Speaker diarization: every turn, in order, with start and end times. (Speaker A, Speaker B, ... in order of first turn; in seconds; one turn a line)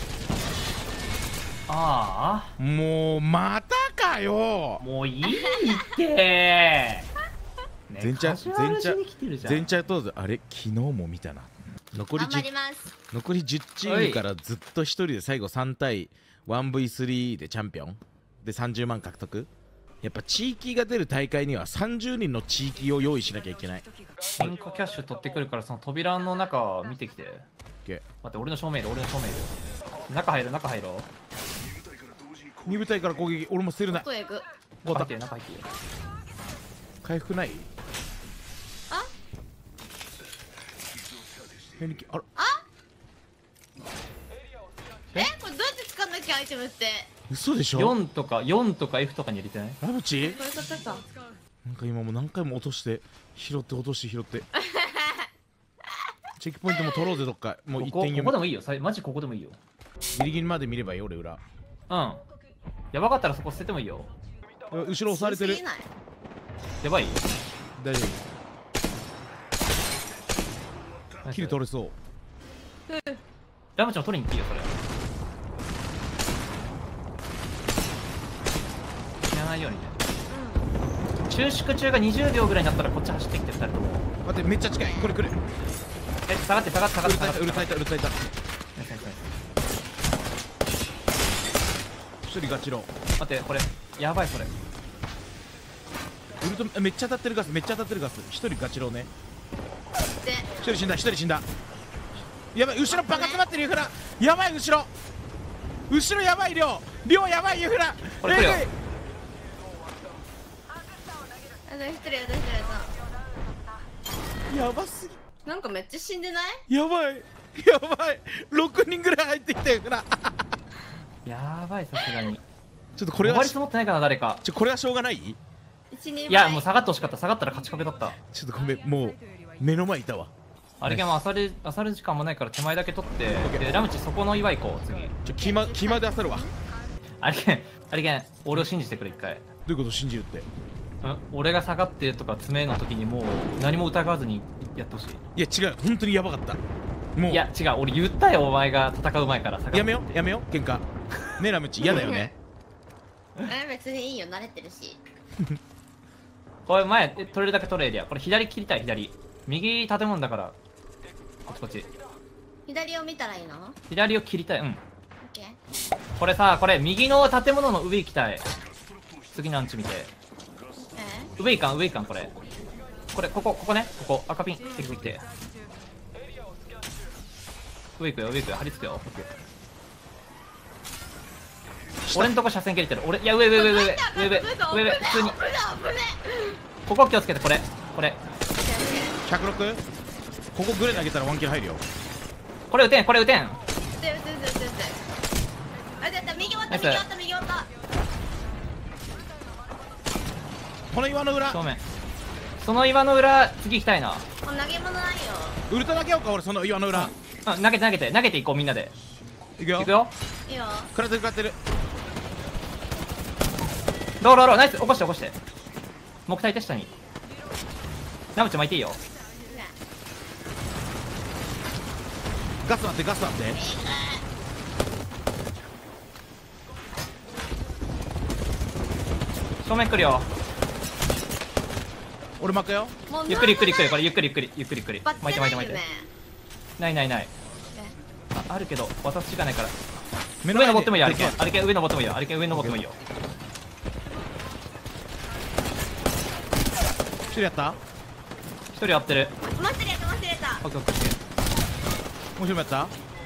Speaker A: 1.7-2.5
Speaker B: 2.6-4.8
Speaker A: 4.8-7.1
Speaker C: 5.2-5.9
Speaker A: 7.9-9.7
Speaker B: 8.0-12.5
Speaker C: 12.2-12.9
Speaker B: 13.1-19.5
Speaker A: 13.8-14.2
Speaker B: 20.0-23.9
Speaker A: 24.4-27.5
Speaker A: 28.2-29.5
Speaker A: 30.1-31.1
Speaker B: 32.6-34.1
Speaker C: 33.9-34.5
Speaker B: 34.8-35.1
Speaker A: 34.9-35.7
Speaker B: 37.0-37.7
Speaker B: 41.8-42.3
Speaker C: 42.4-42.6
Speaker C: 45.1-47.1
Speaker B: 47.3-48.0
Speaker A: 47.7-49.8
Speaker B: 49.8-50.4
Speaker C: 50.2-51.0
Speaker B: 51.6-54.5
Speaker C: 54.6-55.3
Speaker B: 56.4-58.4
Speaker A: 57.8-59.6
Speaker B: 60.1-61.4
Speaker A: 61.9-62.2
Speaker A: 62.9-64.1
Speaker B: 64.7-65.6
Speaker C: 65.1-65.9
Speaker A: 66.8-67.2
Speaker B: 67.8-68.2
Speaker A: 71.2-71.6
Speaker B: 71.3-72.0
Speaker A: 73.8-74.8
Speaker A: 79.3-80.0
Speaker C: 80.3-80.8
Speaker A: 81.3-84.1
Speaker B: 84.2-85.4
Speaker C: 84.8-85.2
Speaker A: 86.3-87.8
Speaker B: 87.0-88.2
Speaker A: 88.8-89.3
Speaker B: 92.2-92.9
Speaker A: 93.2-94.5
Speaker B: 96.4-99.1
Speaker C: 100.2-100.6
Speaker B: 100.6-101.5
Speaker B: 102.5-104.9
Speaker C: 102.9-103.4
Speaker B: 105.9-108.7
Speaker A: 108.2-108.7
Speaker C: 111.7-113.0
Speaker B: 114.5-115.2
Speaker C: 115.5-116.6
Speaker B: 116.7-120.5
Speaker A: 121.2-122.4
Speaker B: 123.0-123.6
Speaker A: 123.2-124.4
Speaker B: 124.4-125.4
Speaker C: 125.9-126.7
Speaker A: 126.3-128.2
Speaker B: 128.3-130.3
Speaker A: 130.8-135.2
Speaker B: 130.8-131.2
Speaker B: 133.3-133.7
Speaker B: 135.2-136.5
Speaker C: 135.4-136.5
Speaker A: 137.2-139.5
Speaker B: 139.7-140.5
Speaker A: 141.0-145.2
Speaker B: 145.3-146.6
Speaker B: 147.2-147.5
Speaker A: 147.3-150.2
Speaker B: 149.7-150.9
Speaker B: 151.4-152.3
Speaker C: 151.8-152.3
Speaker C: 153.4-155.0
Speaker A: 156.7-160.6
Speaker A: 161.5-161.9
Speaker C: 162.7-163.8
Speaker A: 163.9-164.8
Speaker C: 165.2-165.6
Speaker A: 166.2-168.5
Speaker A: 169.3-170.1
Speaker C: 170.9-171.3
Speaker A: 171.4-172.3
Speaker A: 173.1-175.2
Speaker A: 178.0-179.1
Speaker B: 182.1-182.4
Speaker A: 182.1-185.4
Speaker C: 183.5-186.6
Speaker A: 186.9-188.2
Speaker C: 188.6-189.2
Speaker B: 189.2-189.8
Speaker B: 190.5-191.8
Speaker A: 192.7-193.6
Speaker C: 194.0-195.0
Speaker C: 196.0-197.7
Speaker A: 196.7-197.1
Speaker B: 200.9-201.6
Speaker A: 201.5-201.8
Speaker A: 202.6-204.3
Speaker C: 204.4-205.6
Speaker B: 205.7-207.1
Speaker A: 206.9-208.9
Speaker B: 209.6-209.9
Speaker A: 209.8-210.1
Speaker C: 210.5-210.9
Speaker B: 210.9-211.6
Speaker A: 214.2-215.4
Speaker A: 216.3-216.9
Speaker A: 218.4-219.0
Speaker C: 219.5-219.8
Speaker B: 222.6-223.6
Speaker C: 223.5-224.2
Speaker A: 229.6-230.3
Speaker B: 232.4-233.0
Speaker C: 233.1-234.1
Speaker A: 233.3-235.8
Speaker C: 235.0-236.1
Speaker A: 236.8-237.3
Speaker C: 237.7-238.0
Speaker A: 238.3-239.8
Speaker B: 240.4-241.5
Speaker A: 240.5-243.0
Speaker B: 242.5-242.8
Speaker B: 247.3-247.8
Speaker A: 248.7-249.4
Speaker C: 249.5-250.6
Speaker A: 250.6-251.2
Speaker B: 252.4-252.9